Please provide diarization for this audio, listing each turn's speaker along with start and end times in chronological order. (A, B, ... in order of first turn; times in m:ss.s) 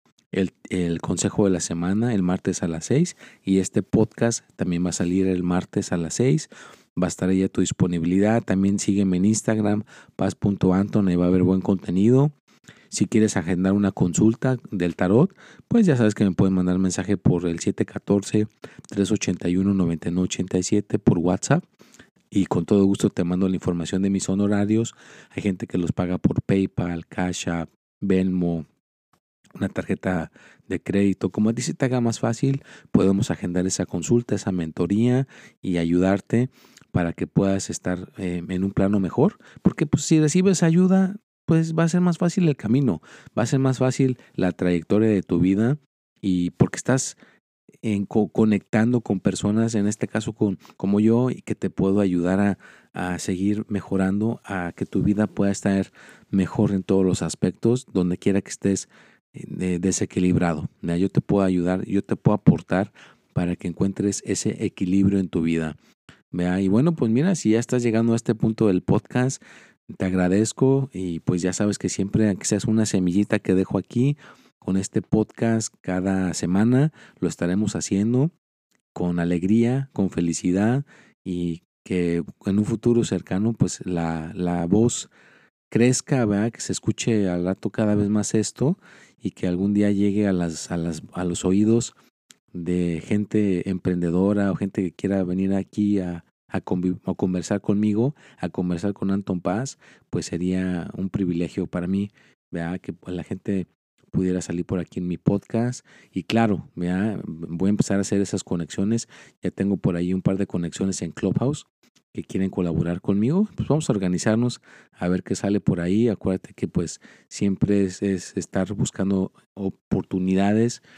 0:00.3-0:12.3 A
0:12.9-0:21.6 A
0:22.3-0:28.6 A
0:29.6-0:47.2 A
0:47.8-1:05.8 A
1:06.3-1:18.3 A
1:18.9-1:25.1 A
1:25.7-1:31.9 A
1:32.5-2:00.8 A